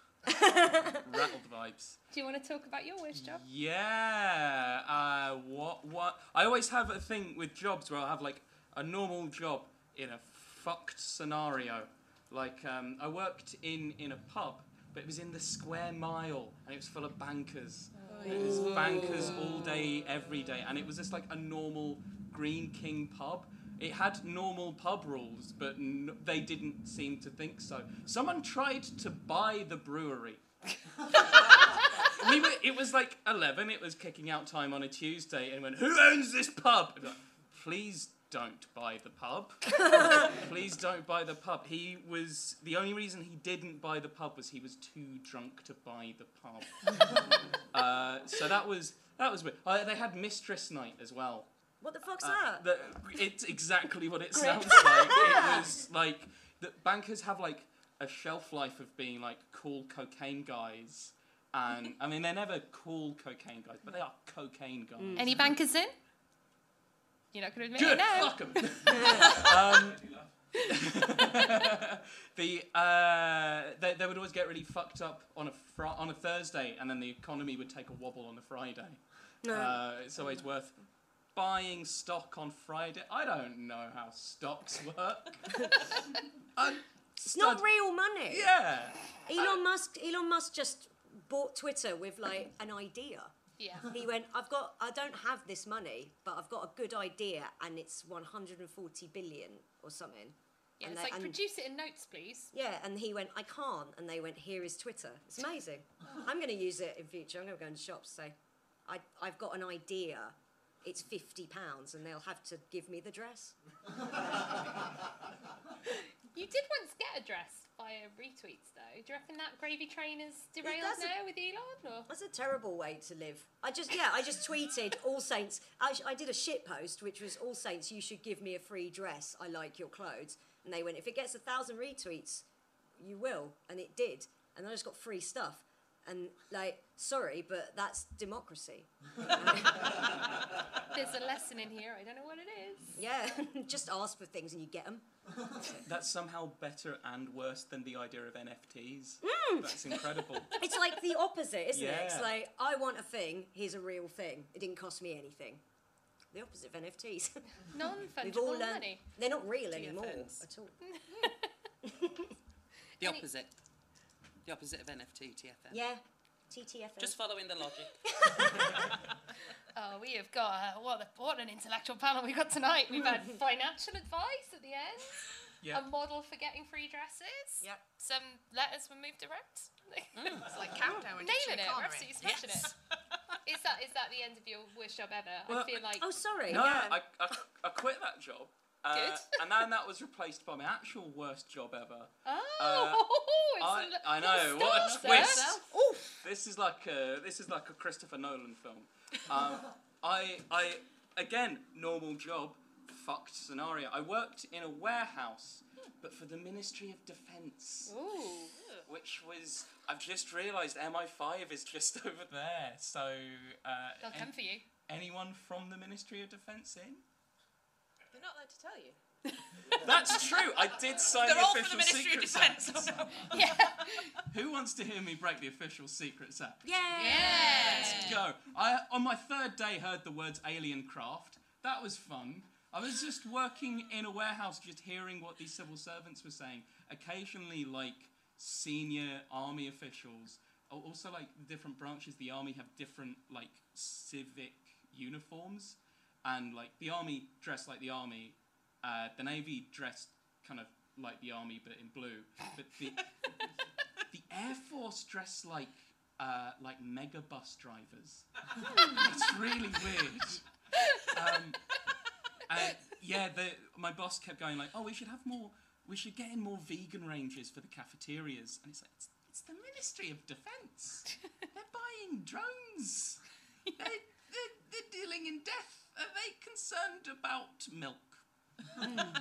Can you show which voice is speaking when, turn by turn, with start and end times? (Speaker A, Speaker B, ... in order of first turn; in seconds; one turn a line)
Speaker A: 0.3-1.0
Speaker B: 1.0-2.0
Speaker C: 2.1-3.4
Speaker B: 3.2-30.4
Speaker D: 18.1-19.4
Speaker B: 31.2-47.2
Speaker B: 47.7-51.5
Speaker A: 51.8-52.6
Speaker B: 52.2-65.5
Speaker A: 54.3-55.6
Speaker A: 65.0-65.4
Speaker C: 65.2-65.9
Speaker C: 67.3-68.4
Speaker B: 67.8-80.8
Speaker A: 68.9-69.3
Speaker C: 71.2-71.6
Speaker A: 79.4-80.2
Speaker B: 81.3-85.7
Speaker B: 86.6-87.6
Speaker A: 87.2-88.5
Speaker B: 88.3-89.2
Speaker A: 89.3-93.3
Speaker C: 93.6-93.9
Speaker A: 93.9-101.4
Speaker C: 100.8-102.5
Speaker A: 102.5-108.3
Speaker A: 108.9-113.5
Speaker C: 115.9-122.1
Speaker A: 120.6-121.1
Speaker A: 122.1-132.5
Speaker A: 133.0-140.0
Speaker C: 140.9-142.9
Speaker A: 143.0-145.1
Speaker B: 145.8-150.6
Speaker A: 149.2-149.9
Speaker A: 150.6-155.6
Speaker B: 151.7-152.3
Speaker A: 156.3-157.4
Speaker C: 157.7-159.0
Speaker A: 158.2-160.8
Speaker E: 159.7-160.4
Speaker C: 160.9-161.4
Speaker A: 161.8-162.3
Speaker E: 163.0-163.6
Speaker E: 164.4-165.8
Speaker A: 165.7-167.2
Speaker E: 167.0-168.0
Speaker A: 168.1-168.8
Speaker C: 169.7-175.2
Speaker C: 175.7-180.7
Speaker E: 180.2-180.5
Speaker D: 180.4-182.7
Speaker C: 181.2-182.7
Speaker C: 183.4-186.1
Speaker B: 185.5-185.8
Speaker A: 186.0-187.0
Speaker B: 186.5-193.1
Speaker D: 186.5-186.9
Speaker C: 188.9-189.4
Speaker C: 192.2-195.5
Speaker B: 193.6-195.6
Speaker D: 194.5-196.1
Speaker B: 196.2-207.9
Speaker C: 207.9-208.5
Speaker B: 208.9-214.3
Speaker C: 214.0-214.6
Speaker B: 214.9-217.0
Speaker D: 218.1-219.0
Speaker B: 219.7-223.0
Speaker D: 220.1-223.4
Speaker C: 223.3-224.1
Speaker B: 224.3-226.6
Speaker A: 226.6-228.1
Speaker D: 226.9-228.2
Speaker C: 227.0-228.1
Speaker B: 228.0-253.1
Speaker B: 254.1-258.3
Speaker B: 258.9-260.4
Speaker B: 261.1-261.6
Speaker B: 262.5-273.2
Speaker B: 273.8-278.2